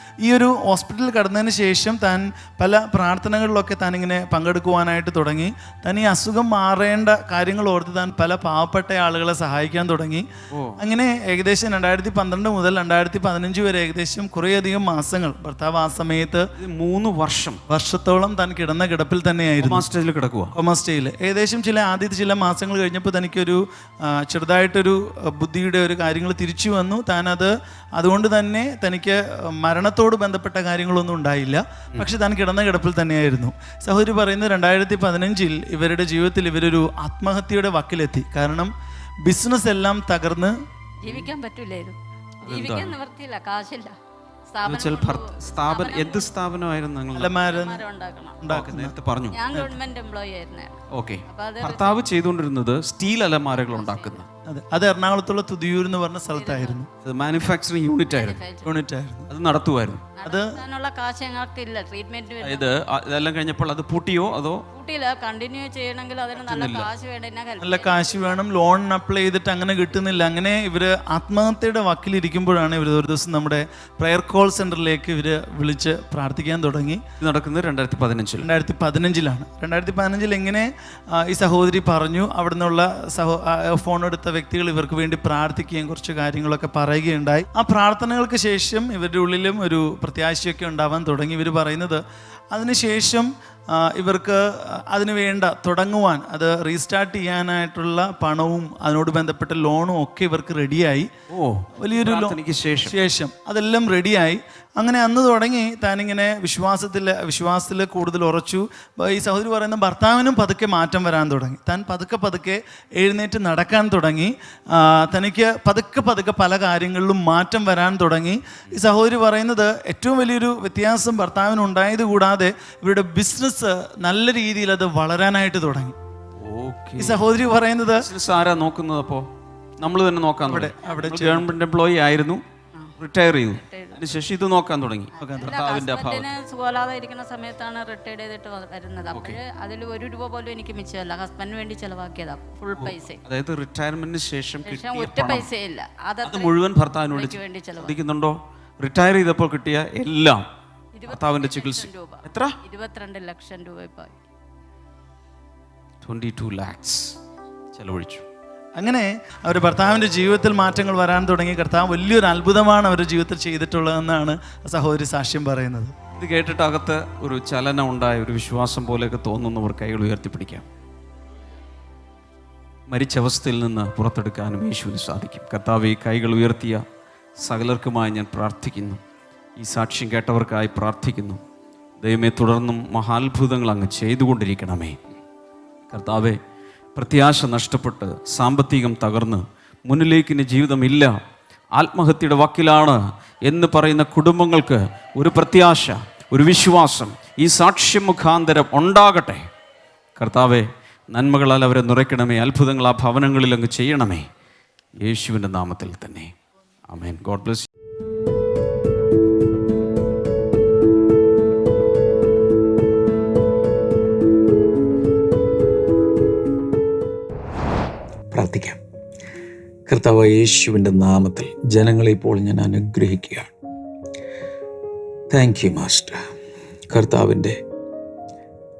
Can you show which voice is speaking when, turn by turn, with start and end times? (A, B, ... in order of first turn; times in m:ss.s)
0:00.2-0:10.3 A
0:10.5-0:10.8 B
0:10.8-0:16.5 A
0:16.6-0:17.6 B
0:17.7-0:19.8 A
0:19.6-0:20.6 B
0:20.5-0:38.7 A
0:39.3-0:40.5 A
0:41.0-0:44.0 C
0:42.4-0:43.0 B
0:44.5-0:46.3 C
0:44.6-0:47.4 B
0:47.1-0:47.8 A
0:47.4-0:48.4 C
0:48.4-0:48.9 A
0:48.5-0:49.6 B
0:49.3-0:52.1 C
0:50.9-0:54.3 B
0:53.7-0:54.2 C
0:54.5-0:56.9 A
0:56.3-0:56.8 C
0:57.0-0:58.4 B
0:58.1-0:58.7 C
0:58.6-0:59.3 A
0:59.3-1:00.1 B
1:00.1-1:02.7 C
1:00.2-1:00.6 A
1:02.4-1:04.6 B
1:04.7-1:08.4 C
1:06.4-1:06.9 B
1:07.6-1:17.0 A
1:17.2-1:18.5 B
1:18.4-1:20.7 A
1:21.2-1:32.0 A
1:32.5-1:41.1 A
1:41.3-1:43.0 B
1:41.8-2:05.9 A
2:06.4-2:07.2 B
2:07.0-2:08.0 A
2:08.0-2:09.3 B
2:09.8-2:12.4 B
2:10.5-2:11.5 A
2:13.0-2:16.3 B
2:13.5-2:14.0 C
2:15.2-2:15.6 A
2:15.2-2:23.2 C
2:19.1-2:19.4 B
2:22.8-2:25.5 B
2:24.6-2:26.5 C
2:26.2-2:30.4 B
2:27.1-2:27.9 C
2:30.9-2:34.2 C
2:31.1-2:32.6 B
2:36.0-2:37.2 B
2:37.7-2:38.2 B
2:38.8-2:45.9 A
2:46.2-2:50.6 B
2:52.9-2:56.8 B
2:57.4-2:59.0 B
2:59.6-3:01.4 B
3:02.0-3:05.0 B
3:05.9-3:06.4 B
3:06.9-3:11.1 B
3:11.7-3:19.4 B
3:20.2-3:24.2 B
3:25.0-3:26.3 B
3:26.9-3:27.7 B
3:38.3-3:38.8 D
3:39.9-3:43.5 D
3:45.3-3:46.2 D
3:46.9-3:47.6 D